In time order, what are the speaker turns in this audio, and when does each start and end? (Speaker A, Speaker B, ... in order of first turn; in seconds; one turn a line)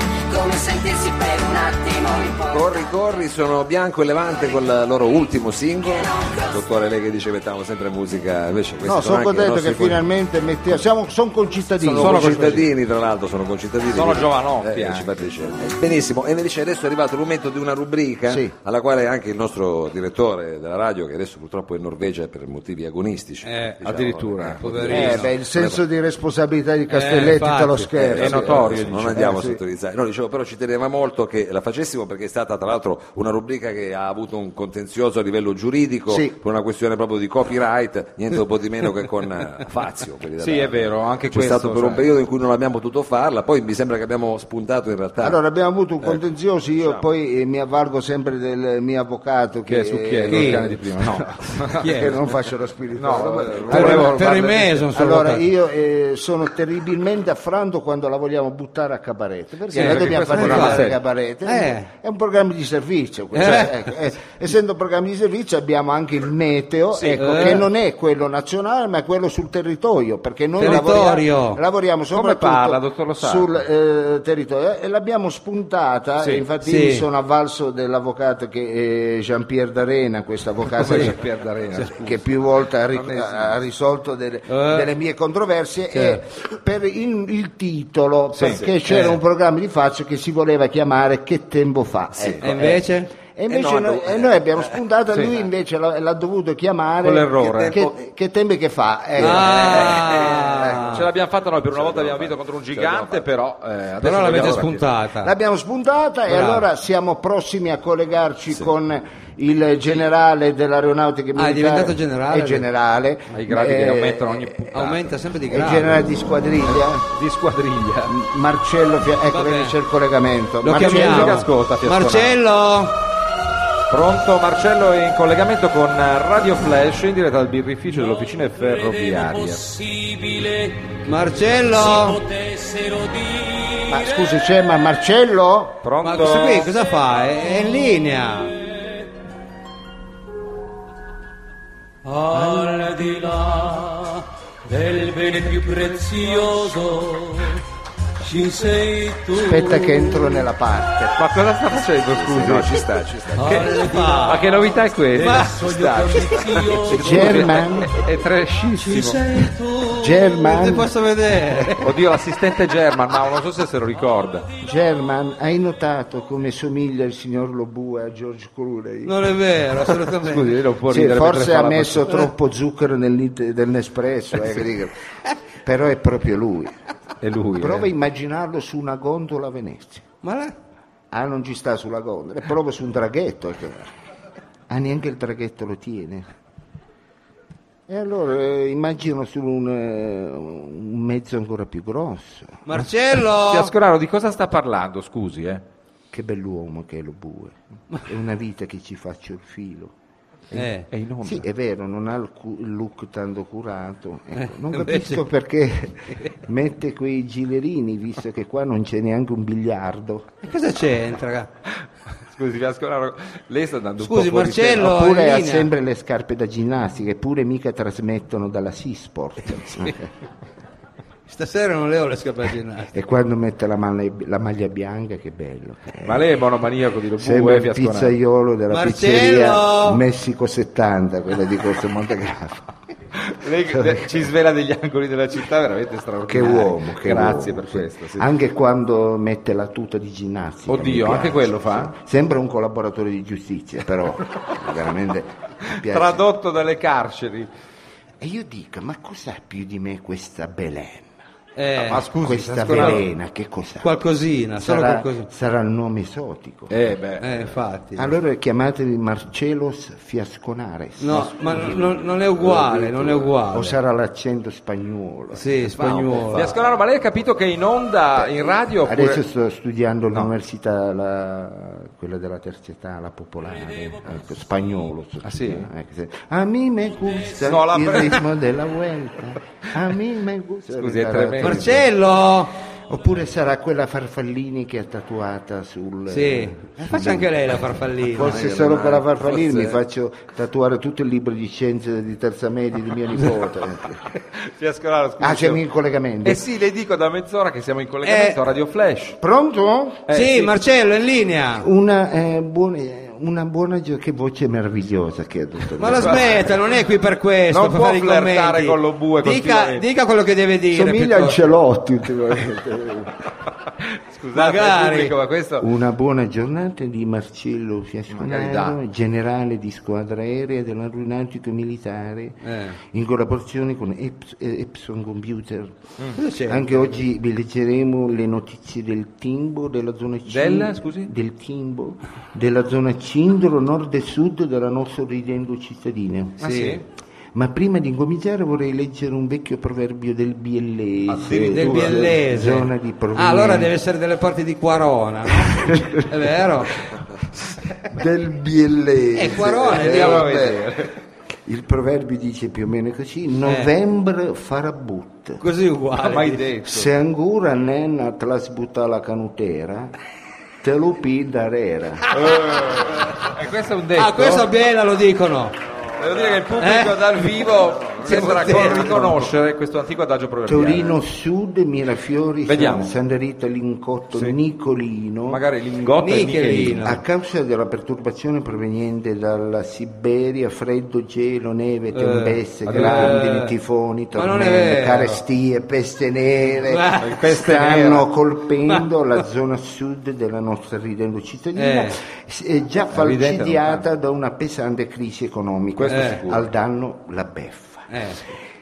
Speaker A: 0.3-2.6
Speaker B: 2.5-10.0
Speaker C: 8.8-12.7
Speaker B: 11.8-25.8
Speaker D: 12.0-12.7
Speaker D: 13.9-15.3
Speaker C: 18.3-18.5
Speaker E: 23.4-23.8
Speaker D: 23.8-25.2
Speaker E: 24.6-25.3
Speaker C: 24.9-29.6
Speaker E: 26.9-27.9
Speaker B: 28.0-45.4
Speaker D: 28.1-29.6
Speaker C: 36.1-36.4
Speaker D: 40.4-42.0
Speaker C: 45.2-50.8
Speaker D: 49.7-52.1
Speaker E: 50.3-50.8
Speaker E: 51.7-52.1
Speaker C: 51.8-81.2
Speaker D: 53.0-54.9
Speaker E: 53.7-55.4
Speaker D: 59.7-61.0
Speaker E: 59.8-60.8
Speaker E: 61.4-61.9
Speaker E: 63.3-63.7
Speaker D: 66.9-67.6
Speaker E: 67.2-67.6
Speaker E: 70.6-71.6
Speaker D: 70.6-71.0
Speaker D: 72.1-73.6
Speaker D: 76.2-76.5
Speaker E: 76.6-77.0
Speaker D: 80.8-83.5
Speaker E: 80.8-81.1
Speaker C: 81.9-100.8
Speaker E: 84.5-84.9
Speaker E: 85.9-86.2
Speaker D: 88.3-88.6
Speaker E: 88.9-89.1
Speaker B: 92.1-92.5
Speaker E: 92.4-93.1
Speaker B: 93.5-94.7
Speaker D: 97.0-97.8
Speaker B: 97.4-97.9
Speaker E: 99.2-101.0
Speaker D: 99.2-104.8
Speaker B: 99.6-100.8
Speaker B: 101.7-103.2
Speaker E: 104.0-105.3
Speaker C: 105.2-114.9
Speaker E: 106.3-106.6
Speaker E: 111.3-112.6
Speaker D: 113.3-115.1
Speaker E: 114.7-115.9
Speaker C: 115.5-117.0
Speaker D: 116.7-118.2
Speaker C: 118.1-121.4
Speaker E: 119.3-119.8
Speaker E: 120.6-122.9
Speaker D: 120.7-122.3
Speaker D: 123.9-129.8
Speaker F: 129.8-130.8
Speaker E: 131.0-132.3
Speaker F: 132.3-133.8
Speaker C: 133.9-135.8
Speaker D: 135.8-136.7
Speaker E: 136.0-138.5
Speaker F: 142.1-147.4
Speaker F: 148.2-149.4
Speaker C: 149.3-151.2
Speaker D: 151.1-152.8
Speaker B: 152.1-153.8
Speaker E: 153.4-154.5
Speaker D: 154.2-159.3
Speaker E: 155.2-155.6
Speaker F: 156.4-156.8
Speaker C: 156.9-157.9
Speaker C: 159.9-160.9
Speaker E: 160.3-161.9
Speaker D: 161.8-164.5
Speaker C: 164.6-169.2
Speaker E: 169.0-170.5
Speaker D: 170.2-172.3
Speaker C: 170.9-174.9
Speaker C: 175.6-176.7
Speaker D: 177.2-177.9
Speaker C: 177.6-180.1
Speaker E: 180.2-180.5
Speaker C: 181.1-183.9
Speaker C: 184.7-186.3
Speaker C: 187.9-192.6
Speaker E: 192.7-193.7
Speaker D: 193.2-195.6
Speaker C: 196.1-199.9
Speaker D: 200.5-201.4
Speaker E: 200.5-200.9
Speaker C: 201.2-210.3
Speaker E: 204.4-205.2
Speaker E: 210.4-211.5
Speaker D: 212.3-214.9
Speaker E: 214.0-215.7
Speaker C: 214.7-220.1
Speaker E: 221.3-222.9
Speaker C: 222.9-226.3
Speaker D: 226.0-228.1
Speaker C: 227.2-232.7
Speaker E: 228.7-230.0
Speaker D: 233.2-238.3
Speaker C: 233.7-234.2
Speaker C: 236.3-246.2
Speaker D: 240.7-241.9
Speaker D: 245.7-247.5
Speaker C: 248.2-251.1
Speaker E: 251.6-252.0
Speaker D: 251.8-253.0
Speaker C: 252.1-254.0
Speaker E: 252.7-253.0
Speaker E: 253.8-255.3
Speaker C: 254.6-256.9
Speaker D: 256.7-257.5
Speaker E: 257.2-258.1
Speaker C: 257.9-266.7
Speaker E: 261.0-263.8
Speaker E: 265.3-266.5
Speaker D: 266.3-269.2
Speaker C: 268.1-281.8
Speaker D: 275.2-275.7
Speaker D: 277.4-278.2
Speaker D: 280.8-281.7
Speaker E: 281.4-282.5
Speaker C: 282.9-294.0
Speaker E: 286.1-288.4
Speaker B: 288.1-289.8
Speaker D: 294.4-295.6
Speaker C: 295.2-296.4
Speaker D: 296.2-299.2
Speaker E: 298.0-298.4
Speaker C: 299.2-300.1
Speaker D: 300.1-300.5
Speaker E: 300.1-301.6
Speaker C: 301.6-306.5
Speaker E: 305.8-311.4
Speaker D: 306.0-306.4
Speaker D: 307.5-309.9
Speaker C: 310.7-313.1
Speaker D: 314.1-315.7
Speaker E: 314.3-315.1
Speaker C: 315.6-325.8
Speaker D: 318.1-318.8
Speaker E: 322.4-322.8
Speaker E: 326.1-327.0
Speaker C: 326.5-336.5
Speaker D: 330.3-331.1
Speaker D: 336.4-336.8
Speaker E: 336.4-336.8
Speaker C: 337.3-343.7
Speaker D: 341.1-342.1
Speaker E: 341.4-346.8
Speaker C: 345.4-346.1
Speaker C: 347.8-350.9
Speaker E: 349.1-350.3
Speaker D: 349.7-350.9
Speaker C: 351.4-355.4
Speaker E: 355.4-356.4
Speaker D: 356.0-356.9
Speaker C: 356.6-359.9
Speaker C: 360.6-362.1
Speaker D: 362.1-364.5
Speaker E: 364.0-365.5
Speaker D: 366.0-370.9
Speaker E: 366.6-367.0
Speaker E: 368.0-369.0
Speaker C: 368.0-369.3
Speaker C: 370.5-375.4
Speaker D: 372.4-372.9
Speaker D: 375.3-377.0
Speaker E: 376.0-377.0
Speaker C: 376.8-397.9
Speaker E: 381.9-383.5
Speaker D: 382.6-383.2
Speaker E: 384.1-385.2
Speaker E: 386.7-387.1
Speaker D: 387.0-388.1
Speaker E: 391.6-391.9
Speaker D: 392.9-393.8
Speaker D: 395.8-396.4
Speaker E: 395.9-396.2
Speaker E: 397.9-398.2